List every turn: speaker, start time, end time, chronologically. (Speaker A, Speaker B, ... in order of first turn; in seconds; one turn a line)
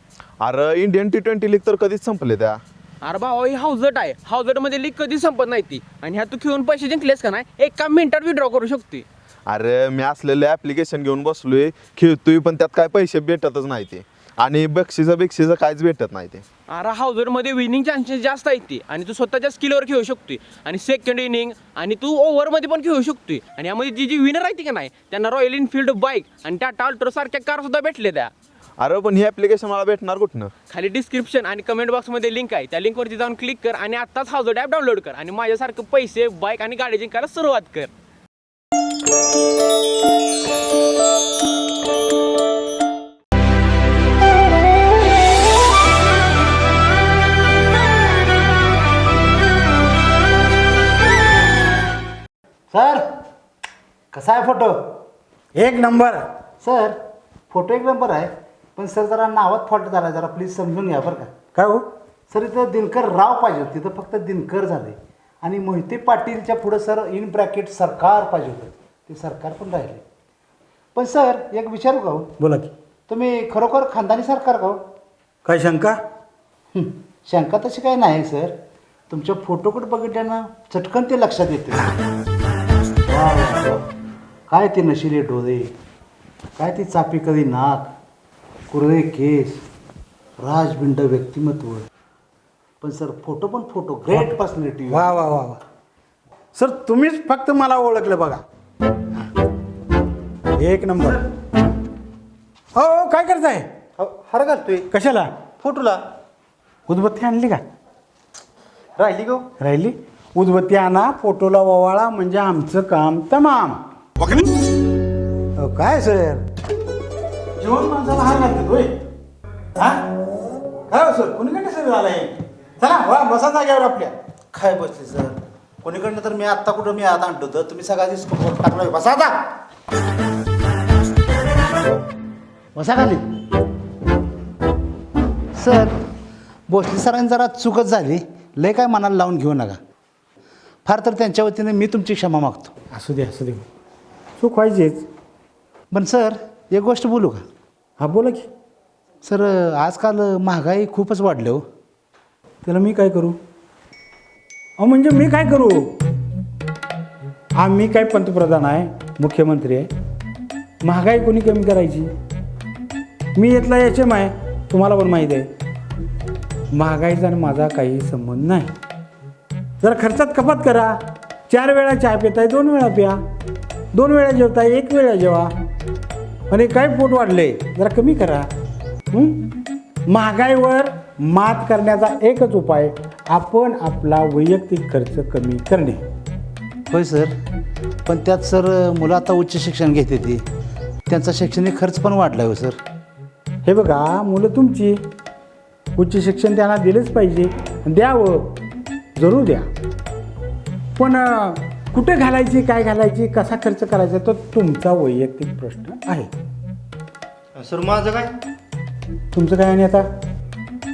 Speaker A: 0.4-2.6
Speaker B: 3.0-9.1
Speaker A: 9.5-16.4
Speaker B: 16.7-28.3
Speaker A: 28.8-30.5
Speaker B: 30.7-37.9
Speaker C: 52.7-53.0
Speaker C: 54.1-54.8
Speaker D: 55.6-56.2
Speaker C: 56.6-57.0
Speaker C: 57.5-61.3
Speaker D: 61.5-61.9
Speaker C: 62.3-70.0
Speaker C: 71.0-72.3
Speaker D: 72.4-72.7
Speaker C: 73.1-74.8
Speaker D: 75.5-76.0
Speaker C: 76.7-78.6
Speaker C: 79.1-81.9
Speaker C: 83.1-83.8
Speaker C: 84.5-85.7
Speaker C: 86.6-87.9
Speaker C: 88.7-89.6
Speaker C: 90.4-91.9
Speaker C: 92.8-95.1
Speaker D: 94.9-95.6
Speaker D: 96.5-98.4
Speaker D: 100.6-101.2
Speaker D: 102.8-103.7
Speaker C: 104.0-104.9
Speaker D: 104.9-105.3
Speaker C: 105.6-106.0
Speaker D: 106.9-107.6
Speaker C: 109.0-109.4
Speaker D: 109.6-114.5
Speaker D: 115.6-116.5
Speaker D: 117.6-118.9
Speaker D: 120.9-124.1
Speaker C: 124.5-129.4
Speaker C: 132.8-133.2
Speaker C: 135.6-136.0
Speaker C: 136.7-139.8
Speaker C: 140.8-142.7
Speaker D: 142.9-143.7
Speaker D: 144.4-145.1
Speaker C: 145.9-147.4
Speaker D: 148.0-148.5
Speaker C: 149.2-151.7
Speaker D: 152.7-153.4
Speaker D: 154.8-155.9
Speaker D: 157.6-159.9
Speaker D: 160.8-162.1
Speaker D: 163.4-165.5
Speaker D: 166.7-168.7
Speaker D: 169.8-171.0
Speaker D: 171.5-173.2
Speaker D: 173.9-175.5
Speaker D: 176.5-178.5
Speaker D: 179.1-179.5
Speaker D: 180.1-186.0
Speaker C: 186.9-187.3
Speaker C: 188.1-190.4
Speaker C: 191.1-192.8
Speaker D: 193.7-195.0
Speaker D: 196.0-198.6
Speaker D: 199.2-199.7
Speaker D: 201.0-206.3
Speaker C: 207.6-208.3
Speaker D: 209.3-210.1